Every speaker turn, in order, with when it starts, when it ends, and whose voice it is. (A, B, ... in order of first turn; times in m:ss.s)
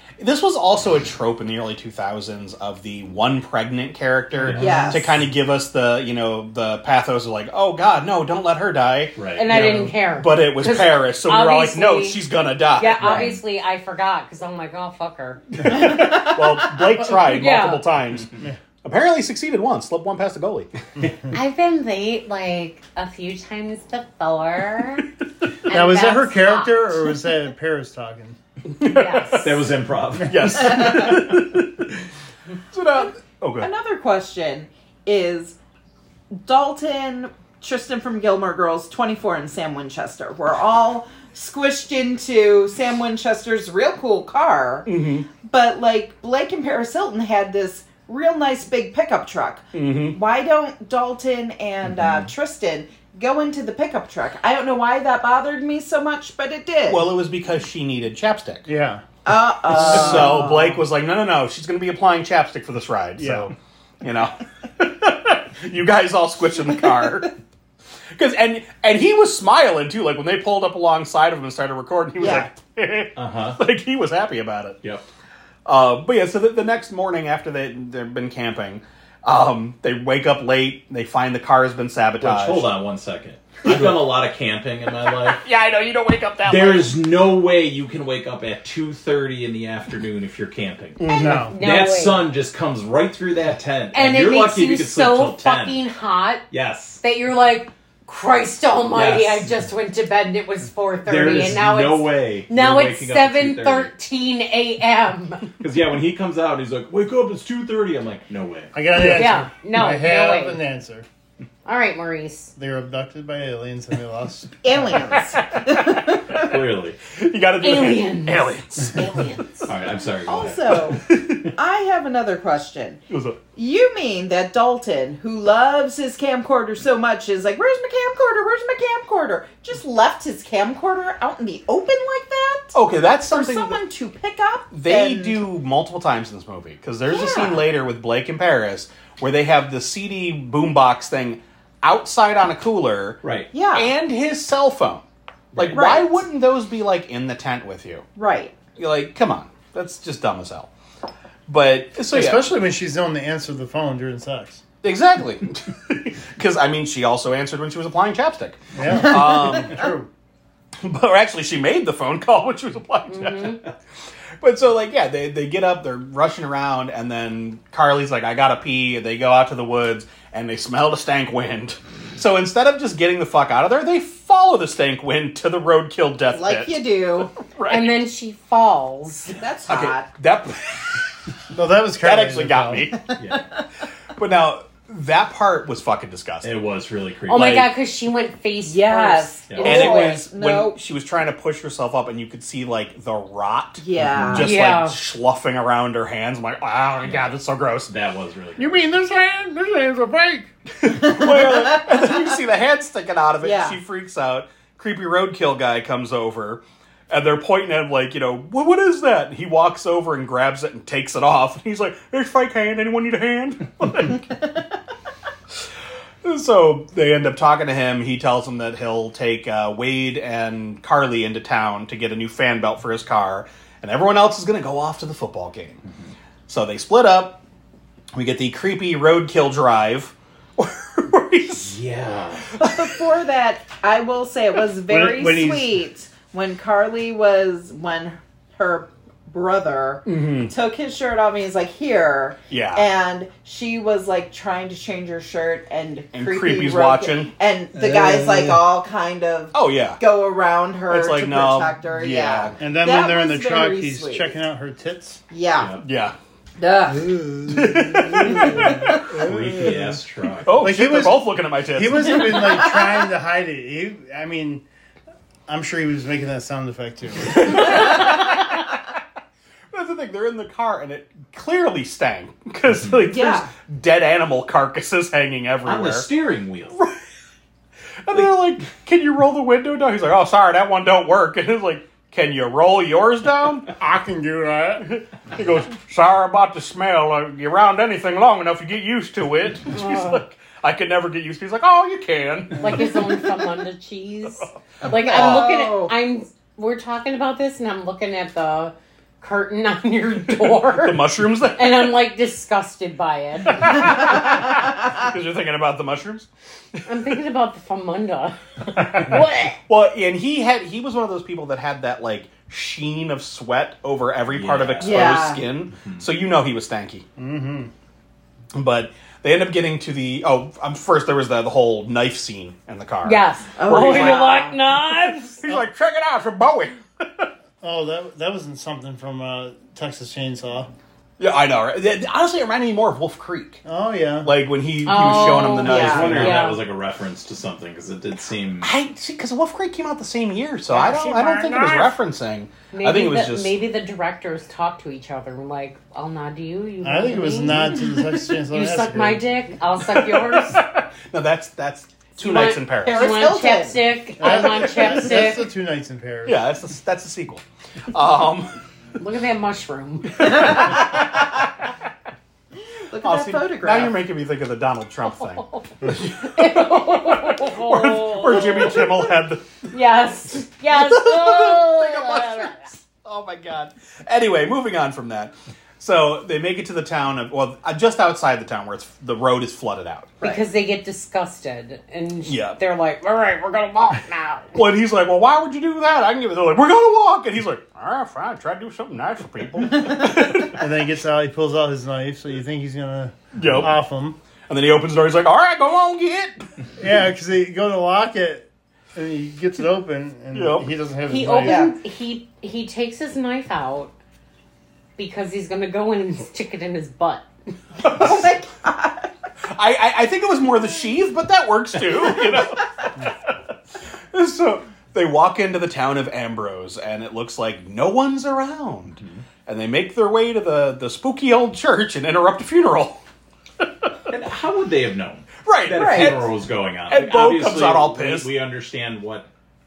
0:00.2-0:13.3 A
0:04.4-0:04.9 B
0:04.5-0:05.1 C
0:09.2-0:09.5 B
0:09.3-0:12.2 D
0:12.8-0:16.3 D
0:12.9-0:13.4 B
0:15.5-0:18.3 A
0:17.0-0:17.9 D
0:18.8-0:20.7 A
0:21.3-0:25.0 D
0:25.6-0:27.1 D
0:25.7-0:28.4 E
0:28.7-0:29.6 A
0:28.8-0:29.6 D
0:29.4-0:31.1 B
0:30.2-0:32.0 A
0:32.7-0:33.7 A
0:33.6-0:35.6 C
0:36.3-0:44.9 C
0:44.8-0:45.2 A
0:45.4-0:57.0 C
0:49.7-0:50.2 A
0:51.9-0:52.3 B
0:56.9-0:58.7 A
0:58.7-0:59.0 E
0:59.2-1:00.8 C
0:59.7-1:07.3 A
1:03.2-1:03.5 E
1:08.1-1:14.8 A
1:12.2-1:12.4 C
1:13.2-1:13.6 B
1:15.6-1:22.7 A
1:22.2-1:25.4 B
1:23.6-1:24.0 A
1:25.3-1:27.0 A
1:26.4-1:31.0 B
1:31.0-1:31.5 A
1:31.1-1:31.6 E
1:31.1-1:31.4 C
1:31.4-1:32.3 D
1:31.5-1:35.8 B
1:33.9-1:36.5 D
1:36.5-1:37.0 B
1:37.0-1:45.5 D
1:38.9-1:39.5 B
1:41.0-1:43.9 B
1:45.6-1:48.7 B
1:48.7-1:51.0 E
1:49.0-1:50.6 D
1:51.6-1:52.5 D
1:52.6-1:55.0 E
1:54.6-1:56.6 C
1:55.1-1:56.1 A
1:56.3-1:57.0 B
1:57.1-1:59.0 A
1:57.6-1:59.7 D
1:59.7-2:00.8 B
2:00.2-2:03.0 C
2:00.7-2:01.5 A
2:03.1-2:03.4 A
2:03.5-2:12.8 C
2:12.7-2:13.8 A
2:13.3-2:15.4 C
2:14.7-2:23.2 A
2:17.1-2:17.6 C
2:23.2-2:23.5 B
2:23.5-2:23.9 C
2:23.7-2:25.0 A
2:25.5-2:25.8 B
2:25.5-2:28.0 A
2:25.7-2:26.2 C
2:28.2-2:28.5 C
2:28.8-2:30.7 A
2:31.5-2:32.5 A
2:32.1-2:34.6 E
2:34.8-2:39.8 A
2:38.7-2:40.1 E
2:40.8-2:43.7 A
2:43.1-2:43.6 D
2:44.4-2:56.8 A
2:56.3-2:57.3 C
2:57.3-2:58.0 A
2:57.7-2:59.3 D
2:59.3-3:00.1 C
2:59.7-3:01.1 A
3:01.5-3:02.9 E
3:02.0-3:03.0 A
3:03.2-3:03.4 B
3:04.2-3:06.5 A
3:06.4-3:07.7 B
3:07.3-3:09.4 D
3:08.6-3:10.8 C
3:09.5-3:10.0 B
3:09.6-3:17.9 A
3:13.8-3:14.5 C
3:14.0-3:14.4 B
3:14.3-3:15.0 D
3:17.0-3:17.3 B
3:17.9-3:18.9 B
3:18.6-3:20.5 E
3:20.7-3:34.3 A
3:21.1-3:22.0 C
3:23.4-3:23.8 C
3:36.2-3:45.8 A
3:46.5-3:47.4 A
3:48.1-3:51.8 A
3:51.6-3:52.6 B
3:52.5-3:53.0 A
3:52.6-4:14.4 C
3:54.9-3:55.7 E
4:00.0-4:00.5 A
4:02.5-4:02.9 A
4:06.1-4:07.3 A
4:07.8-4:08.5 E
4:09.5-4:10.0 A
4:10.9-4:12.6 A
4:12.6-4:15.2 E
4:15.3-4:15.7 C
4:15.6-4:15.8 B
4:15.8-4:16.2 A
4:16.6-4:17.1 C
4:16.9-4:20.0 E
4:17.5-4:19.0 A
4:18.1-4:19.0 C
4:19.1-4:20.6 B
4:20.4-4:22.4 A
4:20.6-4:24.6 E
4:22.2-4:23.0 C
4:25.5-4:28.0 E
4:27.3-4:28.5 A
4:29.7-4:36.1 A
4:32.7-4:33.0 B
4:33.1-4:33.5 C
4:35.6-4:36.8 B
4:38.0-4:43.7 A
4:43.7-4:44.8 E
4:44.8-4:53.5 A
4:49.7-4:50.2 D
4:52.6-5:04.1 D
4:54.9-4:55.9 C
4:55.1-4:55.5 A
5:00.4-5:01.9 A
5:03.5-5:06.8 A
5:06.8-5:09.6 D
5:09.7-5:17.0 A
5:14.3-5:16.0 B
5:14.8-5:15.4 C
5:17.2-5:17.7 E
5:18.5-5:24.5 A
5:23.0-5:25.5 D
5:23.6-5:24.6 C
5:25.2-5:27.3 A
5:27.6-5:30.7 E
5:31.2-5:33.6 A
5:33.6-5:34.3 E
5:34.2-5:36.5 A
5:34.8-5:36.6 D
5:35.6-5:38.7 B
5:35.6-5:35.9 C
5:38.6-5:43.6 A
5:40.8-5:41.4 D
5:41.0-5:41.8 C
5:42.7-5:50.6 D
5:46.8-5:49.2 E
5:49.8-5:53.2 A
5:52.2-5:55.5 D
5:52.8-5:53.8 C
5:54.2-5:56.4 E
5:56.2-5:58.5 A
5:59.0-6:00.7 D
6:00.2-6:01.3 A
6:02.8-6:04.0 C
6:03.0-6:09.6 A
6:05.2-6:09.1 D
6:09.7-6:12.6 D
6:10.7-6:20.3 A
6:20.2-6:24.5 D
6:22.2-6:22.6 A
6:24.5-6:30.6 A
6:30.5-6:34.2 E
6:33.3-6:33.7 A
6:34.5-6:36.5 A
6:36.8-6:41.7 E
6:40.3-6:40.7 A
6:41.0-6:43.9 D
6:41.4-6:41.7 C
6:45.0-6:47.3 D
6:47.8-6:49.1 C
6:47.8-6:48.3 A
6:49.4-6:52.9 A
6:54.1-7:03.0 A
7:03.6-7:03.9 A
7:04.1-7:09.3 B
7:05.4-7:06.3 A
7:05.7-7:06.1 C
7:06.9-7:08.3 A